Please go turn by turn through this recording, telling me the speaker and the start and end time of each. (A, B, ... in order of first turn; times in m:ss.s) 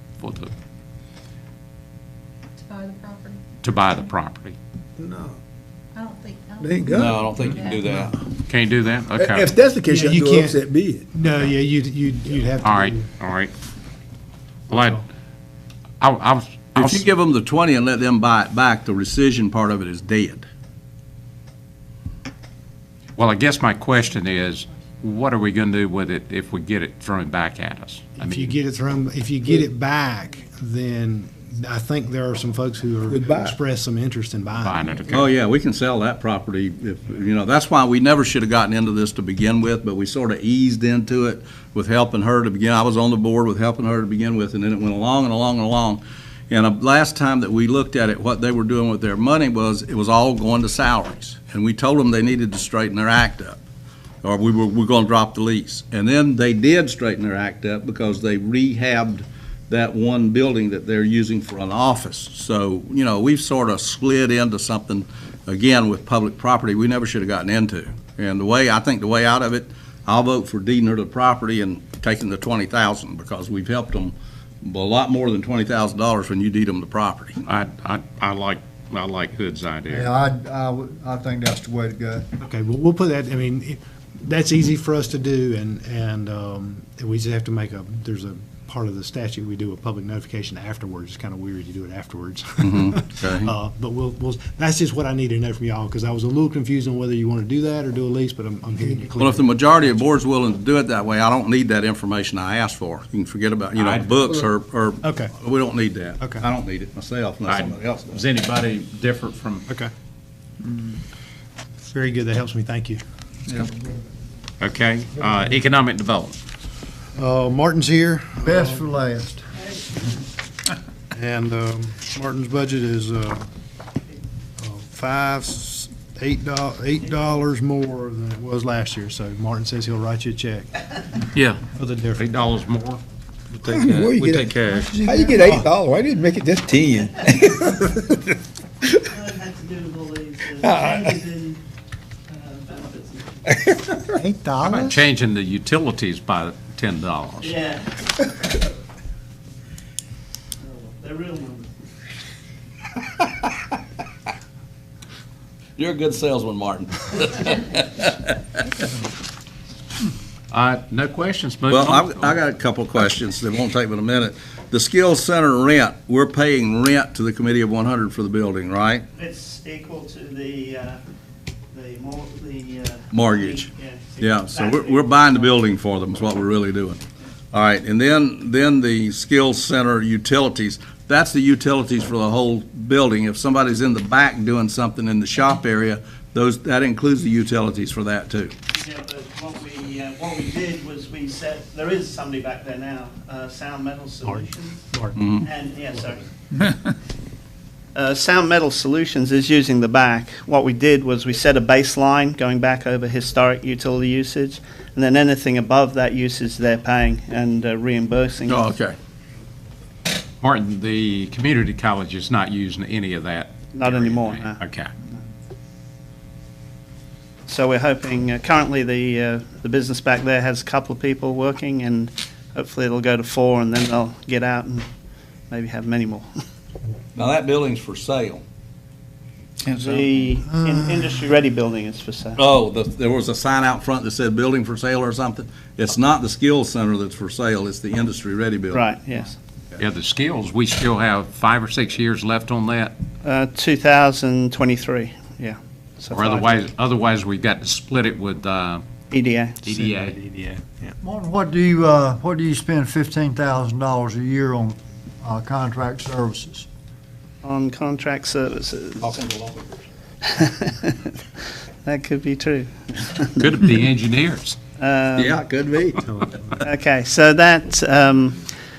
0:00.2-0:00.5 A
0:02.6-0:03.6 B
0:03.6-0:04.6 A
0:05.0-0:05.3 C
0:05.9-0:07.9 B
0:06.6-0:07.2 C
0:06.9-0:08.2 D
0:07.8-0:08.1 C
0:08.4-0:09.5 A
0:09.1-0:11.1 C
0:09.8-0:13.0 E
0:12.6-0:13.5 A
0:14.7-0:15.0 E
0:14.7-0:15.0 A
0:16.0-0:17.1 A
0:16.7-0:20.5 D
0:23.2-0:28.5 A
0:28.2-0:34.8 E
0:33.1-0:33.5 C
0:34.6-0:35.2 A
0:35.1-0:53.6 D
0:54.2-1:17.4 D
1:17.4-1:20.2 A
1:20.0-1:22.2 F
1:22.4-1:39.6 E
1:32.6-1:33.5 D
1:39.2-1:48.2 D
1:43.8-1:44.3 A
1:45.0-1:45.3 E
1:47.5-1:49.6 A
1:51.9-1:53.0 E
1:54.6-1:56.4 A
1:57.2-1:58.8 E
1:58.9-1:59.3 F
2:01.1-2:03.4 E
2:04.6-2:10.9 E
2:11.3-2:11.6 A
2:11.7-2:12.2 E
2:12.2-2:13.0 A
2:13.5-2:15.0 A
2:13.7-2:18.2 C
2:14.7-2:15.7 E
2:19.0-2:21.6 G
2:20.7-2:21.0 C
2:22.3-2:23.7 G
2:24.2-2:24.9 E
2:24.6-2:27.6 A
2:27.4-2:28.2 G
2:30.6-2:31.7 G
2:35.8-2:38.6 D
2:40.5-2:42.4 A
2:41.7-2:49.0 D
2:49.2-2:51.0 G
2:51.7-2:55.6 G
2:53.1-2:57.0 D
2:57.5-3:08.5 D
3:08.7-3:14.8 G
3:14.2-3:15.2 E
3:15.2-3:15.4 D
3:15.4-3:16.2 G
3:17.9-3:28.7 G
3:28.5-3:29.0 D
3:30.4-3:34.9 A
3:33.7-3:34.6 G
3:37.5-3:44.8 G
3:45.5-3:46.3 G
3:47.2-3:48.4 D
3:49.6-3:50.0 F
3:49.6-3:52.4 G
3:52.4-3:58.8 D
3:58.7-3:59.4 G
3:59.8-4:02.9 A
4:03.2-4:06.6 G
4:06.1-4:08.8 A
4:09.1-4:09.6 G
4:09.6-4:10.2 A
4:09.7-4:11.0 E
4:11.0-4:16.6 F
4:17.4-4:19.2 G
4:19.0-4:19.7 D
4:20.3-4:21.2 G
4:21.8-4:23.4 G
4:23.4-4:24.6 A
4:24.8-4:25.4 G
4:25.2-4:26.0 D
4:26.1-4:26.6 E
4:26.6-4:28.4 G